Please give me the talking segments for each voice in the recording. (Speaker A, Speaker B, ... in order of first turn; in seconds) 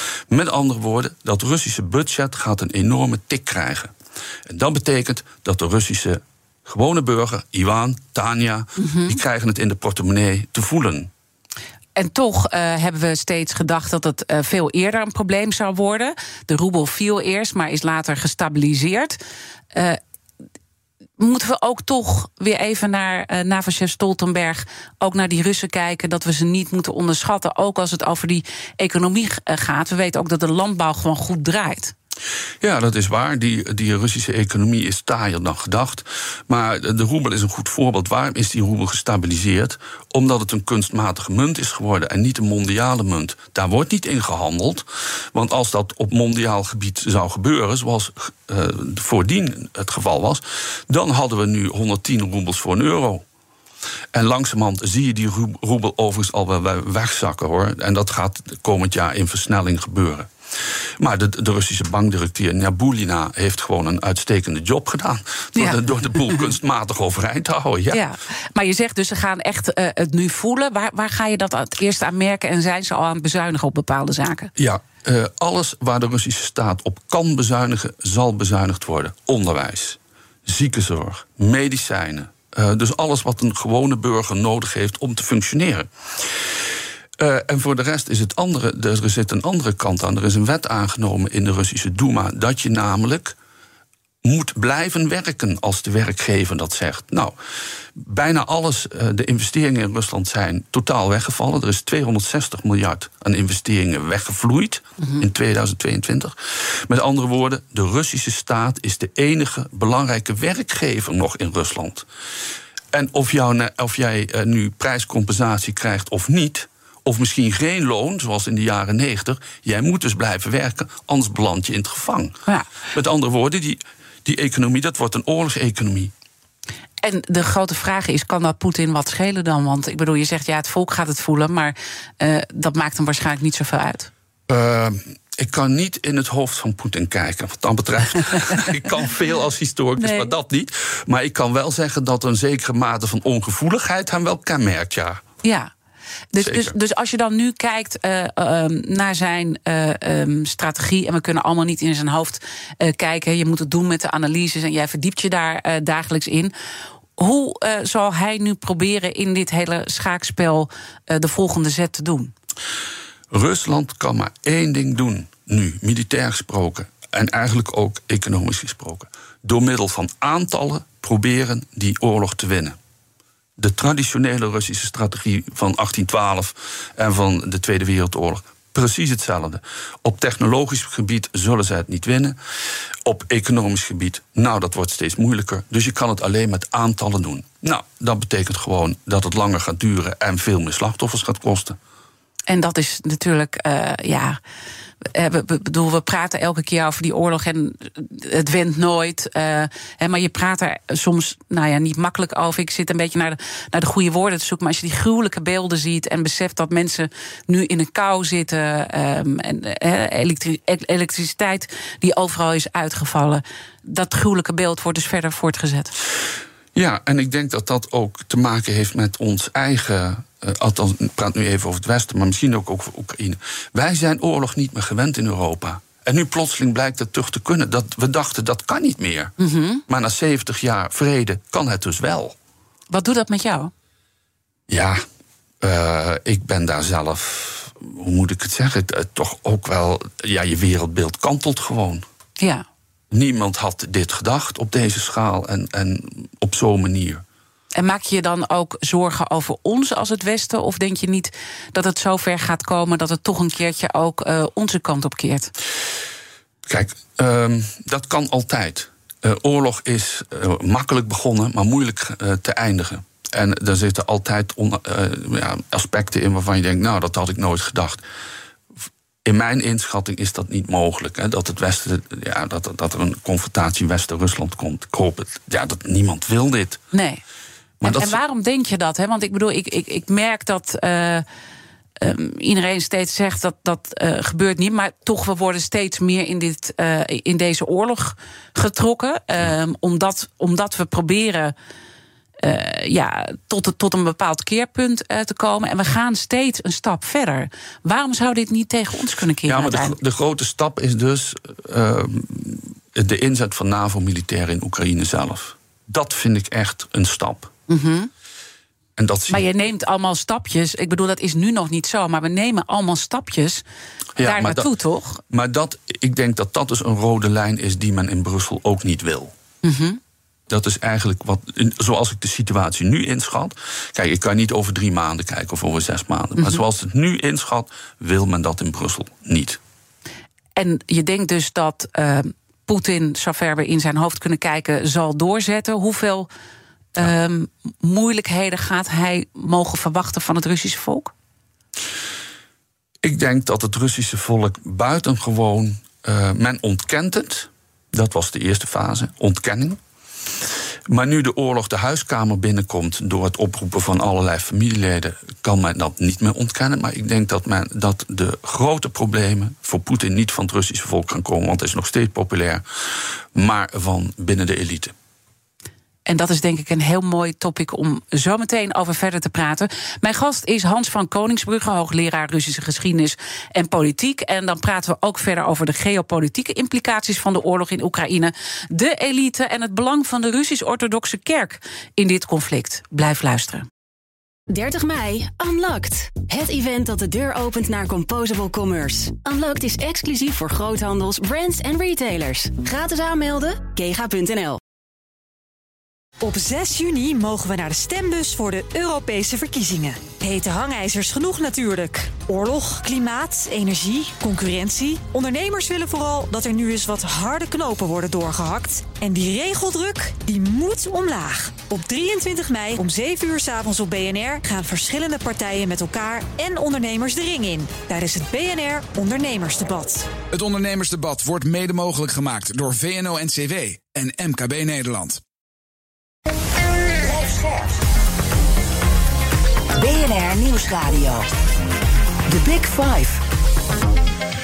Speaker A: 0.3-3.9, 4.5-11.1, 32.6-53.2, 54.1-60.3, 61.0-68.0, 74.6-86.5, 87.2-93.3, 94.2-97.3, 98.0-112.1, 112.9-122.4, 122.9-126.1, 134.5-145.2, 146.4-146.7, 163.3-172.8, 173.6-182.4, 183.1-191.8, 216.8-229.3, 229.9-232.4, 234.7-235.0, 235.6-242.1, 243.1-247.2, 256.7-268.0, 269.2-276.8, 277.8-278.2, 299.5-307.5, 309.0-309.4, 314.2-314.7, 315.3-319.3, 320.5-329.6, 343.0-349.8, 350.9-362.6, 363.4-364.9
Speaker B: 8.8-9.2, 12.0-19.2, 19.7-20.0, 21.2-31.9, 65.6-65.8, 67.9-74.5, 127.0-134.1, 140.0-140.3, 145.4-145.7, 146.3-156.5, 157.2-162.3, 192.5-194.4, 195.1-215.9, 229.4-229.8, 232.9-233.7, 242.4-242.7, 247.8-255.5, 276.9-277.2, 277.8-281.2, 282.0-291.6, 292.4-300.0, 307.7-308.1, 309.3-313.6, 314.2-315.2, 319.6-320.0, 330.6-336.3, 337.0-341.1, 366.1-383.7
Speaker C: 384.5-394.6
Speaker D: 396.2-420.1
Speaker E: 420.3-425.2
Speaker F: 427.0-427.8, 429.7-431.3, 432.3-433.2